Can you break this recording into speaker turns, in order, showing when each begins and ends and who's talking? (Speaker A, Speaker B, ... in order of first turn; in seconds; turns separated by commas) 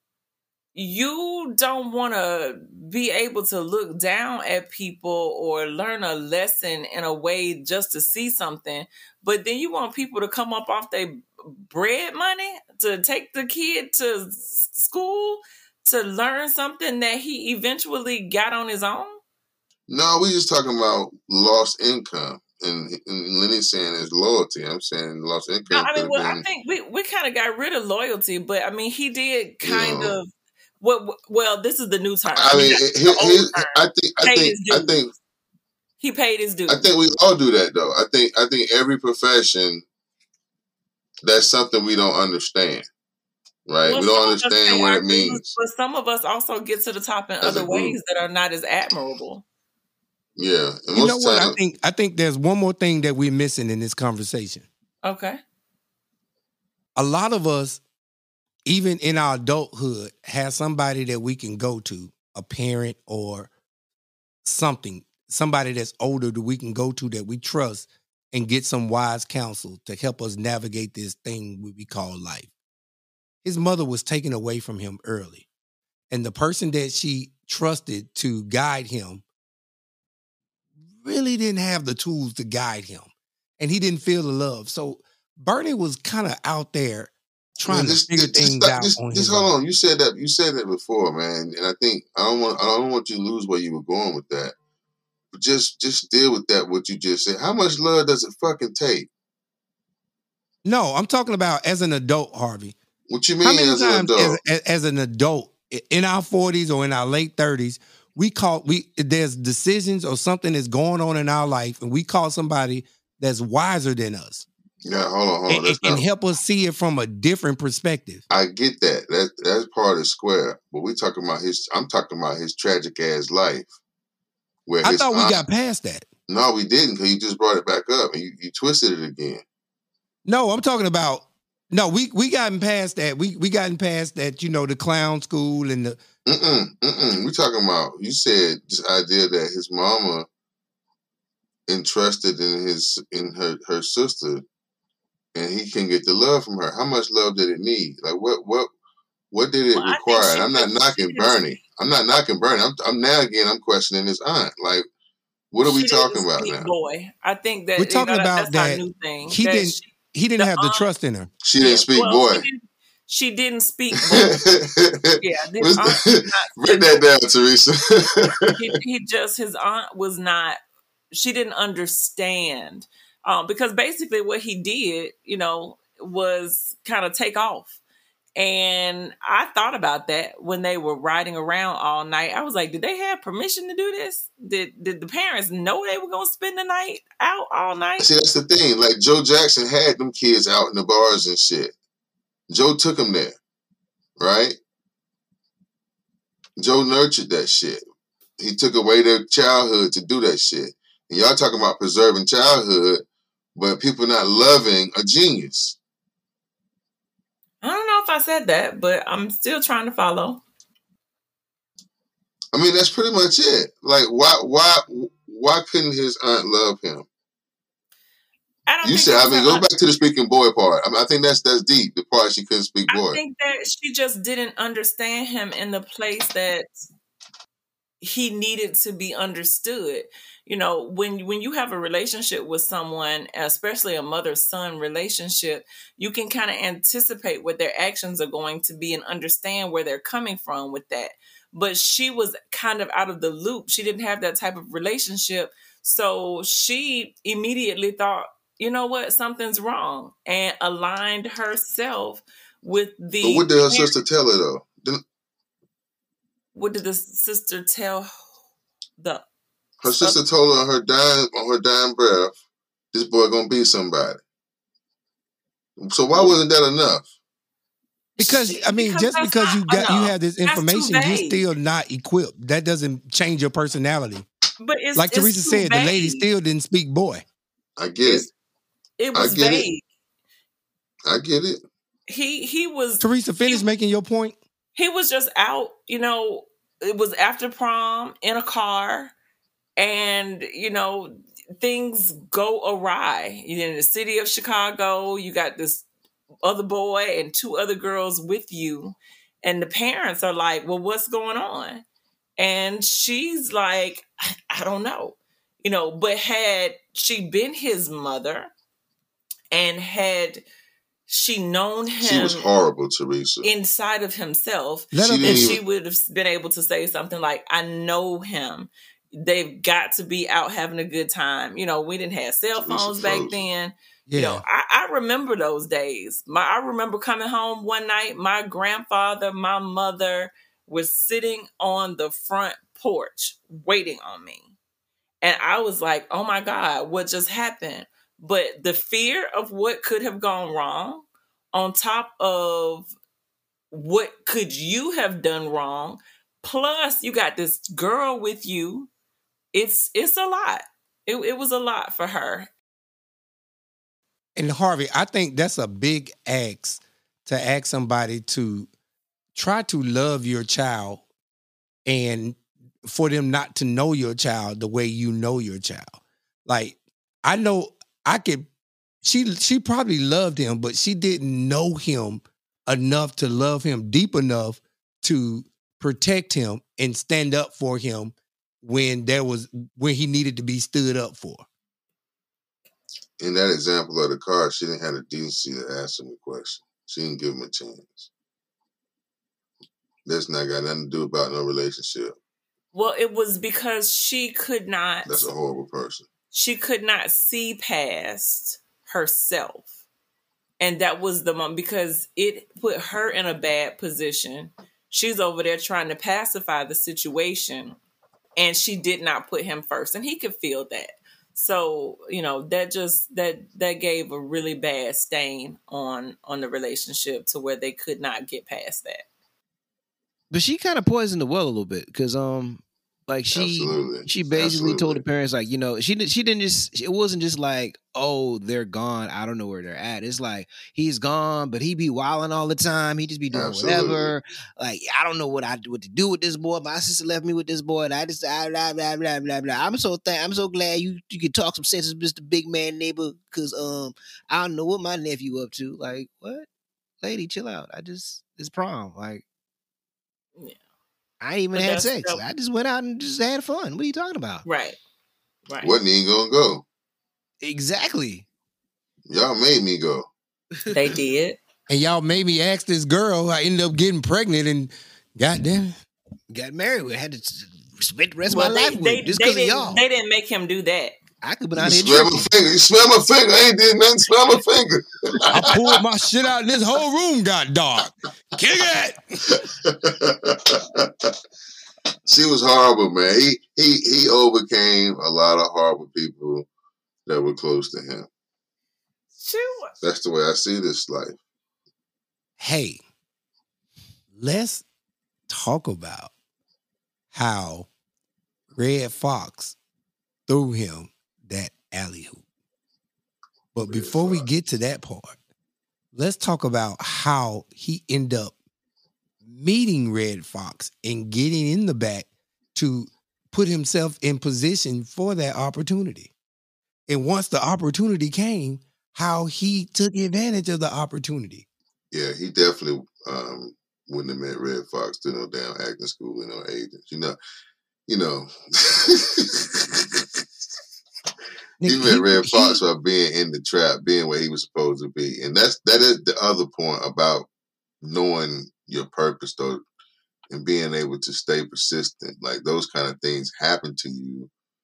Speaker A: 0.7-19.2, Speaker B: 19.9-26.4, Speaker A: 25.7-35.1, Speaker B: 29.6-30.2, Speaker B: 32.3-35.1, Speaker A: 36.0-36.9, Speaker B: 36.7-39.8, Speaker B: 41.2-42.9, Speaker B: 43.7-45.5, Speaker A: 43.8-49.5, Speaker B: 47.4-48.0, Speaker B: 50.4-51.5, Speaker C: 50.9-54.7, Speaker A: 55.0-55.4, Speaker C: 57.0-57.8, Speaker C: 58.7-63.5, Speaker C: 64.5-72.5, Speaker C: 73.4-75.5, Speaker C: 76.1-79.2, Speaker C: 81.0-89.5, Speaker B: 87.7-94.5, Speaker B: 95.3-99.1, Speaker C: 100.6-102.8, Speaker B: 103.1-104.4, Speaker C: 103.4-114.5, Speaker B: 114.8-116.0, Speaker C: 115.5-118.2, Speaker B: 118.3-123.7, Speaker B: 124.7-125.4, Speaker C: 124.8-126.1, Speaker B: 126.3-129.4, Speaker C: 130.3-136.0, Speaker B: 136.3-140.3, Speaker B: 141.7-144.4, Speaker B: 145.3-148.7, Speaker B: 149.3-154.9, Speaker A: 149.7-151.6, Speaker B: 155.5-156.7, Speaker A: 155.6-160.9, Speaker C: 157.8-161.3, Speaker B: 161.4-162.4, Speaker A: 161.6-164.3, Speaker B: 164.1-168.6, Speaker A: 165.2-167.1, Speaker A: 168.6-170.6, Speaker A: 171.1-177.8, Speaker A: 178.4-188.1, Speaker B: 188.0-191.7, Speaker B: 192.5-193.3, Speaker B: 194.2-194.6, Speaker B: 196.6-197.8, Speaker B: 198.4-203.0, Speaker B: 203.6-205.8, Speaker A: 207.6-210.4, Speaker B: 212.5-217.1, Speaker A: 218.7-219.7, Speaker B: 218.8-223.2, Speaker A: 222.9-226.8, Speaker A: 228.0-253.9, Speaker B: 253.2-255.0, Speaker A: 256.5-258.1, Speaker B: 259.8-262.3, Speaker A: 259.8-260.2, Speaker B: 262.9-264.2, Speaker B: 265.8-267.1, Speaker A: 268.2-271.4, Speaker C: 268.2-274.3, Speaker A: 274.6-276.3, Speaker C: 274.9-277.2, Speaker B: 277.8-278.3, Speaker A: 278.0-278.3, Speaker A: 279.0-279.8, Speaker B: 279.1-279.7, Speaker B: 281.1-281.6, Speaker A: 282.1-283.6, Speaker C: 283.0-284.4, Speaker A: 284.7-289.1, Speaker A: 289.8-295.9, Speaker A: 296.4-301.8, Speaker A: 302.4-308.5, Speaker A: 309.5-310.4, Speaker A: 311.1-312.4, Speaker B: 312.0-313.5, Speaker A: 313.4-334.5, Speaker C: 314.9-315.6, Speaker B: 314.9-315.6, Speaker B: 322.6-323.4, Speaker C: 324.1-324.4, Speaker A: 335.2-342.9, Speaker A: 343.7-348.9, Speaker A: 349.5-352.5, Speaker C: 354.4-358.7, Speaker C: 359.3-361.0, Speaker C: 361.9-368.5, Speaker C: 369.0-381.4, Speaker B: 383.2-388.1, Speaker B: 390.1-392.2, Speaker A: 392.7-395.3, Speaker B: 395.1-396.1, Speaker A: 396.3-399.7, Speaker A: 400.6-407.8, Speaker A: 408.4-419.1, Speaker D: 420.3-446.5, Speaker B: 423.3-425.0, Speaker B: 433.3-434.1, Speaker D: 447.0-449.2, Speaker D: 451.2-454.4, Speaker A: 451.5-452.2, Speaker A: 454.4-454.8, Speaker A: 455.5-455.7, Speaker B: 455.6-456.6, Speaker D: 457.4-458.3, Speaker B: 459.1-460.1, Speaker A: 460.7-461.4, Speaker C: 461.7-465.8, Speaker D: 466.3-469.8, Speaker A: 468.3-470.9, Speaker D: 471.2-472.3, Speaker B: 471.6-475.7, Speaker C: 475.3-479.2, Speaker B: 479.3-481.1, Speaker B: 482.1-486.5, Speaker B: 487.1-488.1, Speaker A: 489.2-489.7, Speaker B: 489.8-491.2, Speaker C: 492.4-492.8, Speaker C: 494.1-494.6, Speaker C: 495.3-496.1, Speaker C: 497.1-497.7, Speaker C: 498.6-499.6, Speaker C: 500.3-502.2, Speaker C: 503.6-505.2, Speaker B: 503.6-504.3, Speaker C: 505.9-508.3, Speaker C: 509.2-516.1, Speaker C: 516.9-521.5, Speaker B: 521.9-527.2, Speaker B: 527.9-530.0, Speaker C: 531.6-532.6, Speaker B: 531.6-537.3, Speaker B: 537.8-539.6, Speaker B: 540.3-544.3